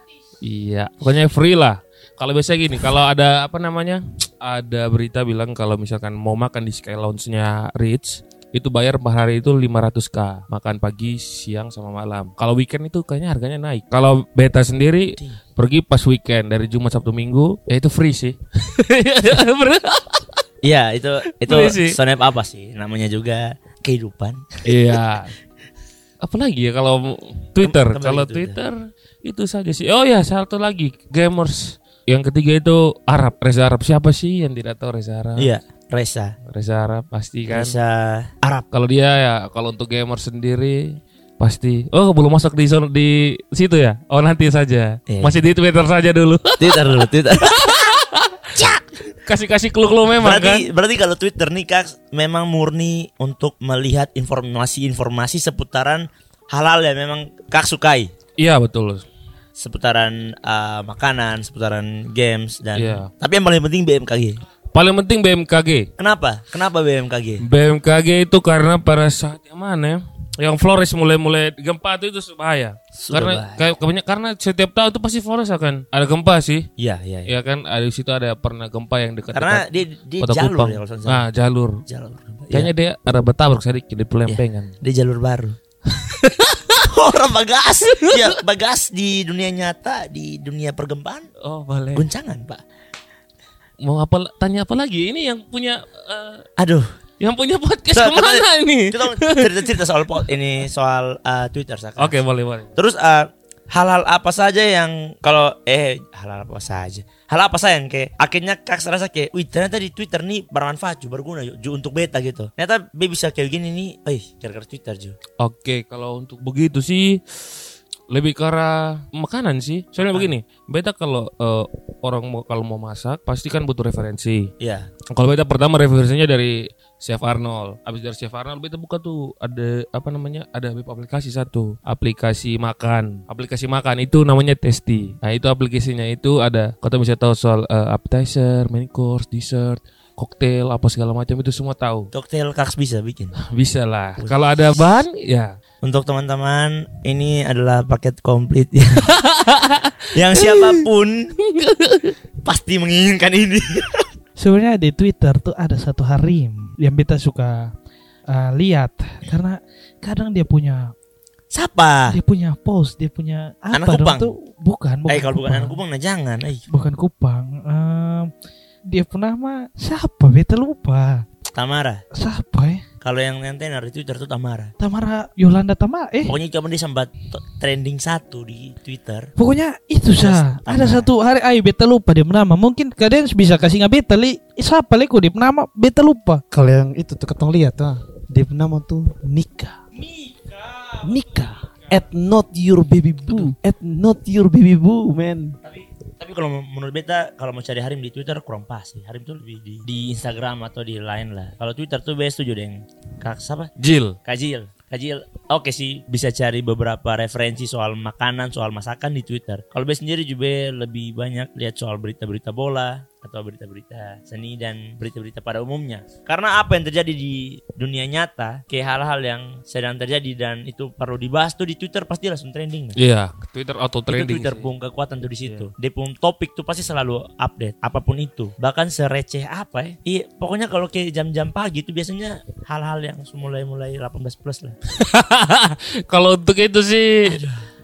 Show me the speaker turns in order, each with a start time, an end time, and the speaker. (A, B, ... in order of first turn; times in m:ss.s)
0:00.4-0:20.4 A
0:20.6-0:25.0 B
0:21.4-0:22.0 A
0:24.6-0:25.3 A
0:26.2-0:35.5 A
0:27.6-0:28.6 B
0:35.4-0:36.4 B
0:36.4-0:37.8 A
0:37.5-0:38.7 B
0:38.7-0:48.3 A
0:45.1-0:45.4 B
0:46.6-0:47.8 B
0:48.6-0:48.9 B
0:49.2-0:50.7 A
0:50.2-0:58.1 B
0:58.4-0:59.1 A
0:59.6-1:04.4 B
1:02.8-1:03.1 A
1:04.7-1:05.9 A
1:06.0-1:07.4 B
1:07.4-1:16.7 A
1:13.0-1:13.6 B
1:16.8-1:17.3 B
1:17.3-1:19.7 A
1:19.3-1:21.2 B
1:20.2-1:21.8 A
1:21.9-1:22.7 B
1:22.5-1:24.8 A
1:24.3-1:25.6 B
1:26.7-1:31.3 B
1:28.0-1:28.4 A
1:31.4-1:32.1 A
1:32.0-1:32.6 B
1:33.8-1:36.4 A
1:36.6-1:37.0 B
1:37.2-1:39.7 A
1:37.9-1:42.2 B
1:42.0-1:42.7 A
1:42.8-1:55.2 B
1:55.4-1:57.4 A
1:58.1-2:04.5 A
2:04.6-2:04.9 B
2:05.1-2:22.1 A
2:22.1-2:23.4 B
2:23.4-2:25.6 A
2:25.8-2:29.1 B
2:29.1-2:30.9 A
2:30.1-2:31.3 B
2:31.4-2:32.1 A
2:32.4-2:34.1 B
2:34.4-2:37.7 C
2:38.3-2:40.9 C
2:41.5-2:42.2 B
2:42.1-2:45.8 C
2:43.7-2:44.3 B
2:45.1-2:46.6 B
2:46.7-2:48.3 C
2:48.9-2:51.3 C
2:51.5-2:52.0 B
2:52.1-2:52.8 C
2:53.0-2:54.7 B
2:54.8-2:56.3 C
2:56.3-2:59.3 B
2:59.4-3:06.4 C
3:00.2-3:01.1 B
3:06.5-3:09.8 D
3:10.6-3:10.9 B
3:11.0-3:15.6 D
3:15.6-3:23.7 B
3:23.8-3:24.2 A
3:24.2-3:43.0 B
3:43.0-3:44.7 A
3:44.1-3:54.8 B
3:45.4-3:45.7 A
3:54.9-3:57.4 A
3:57.2-3:57.6 B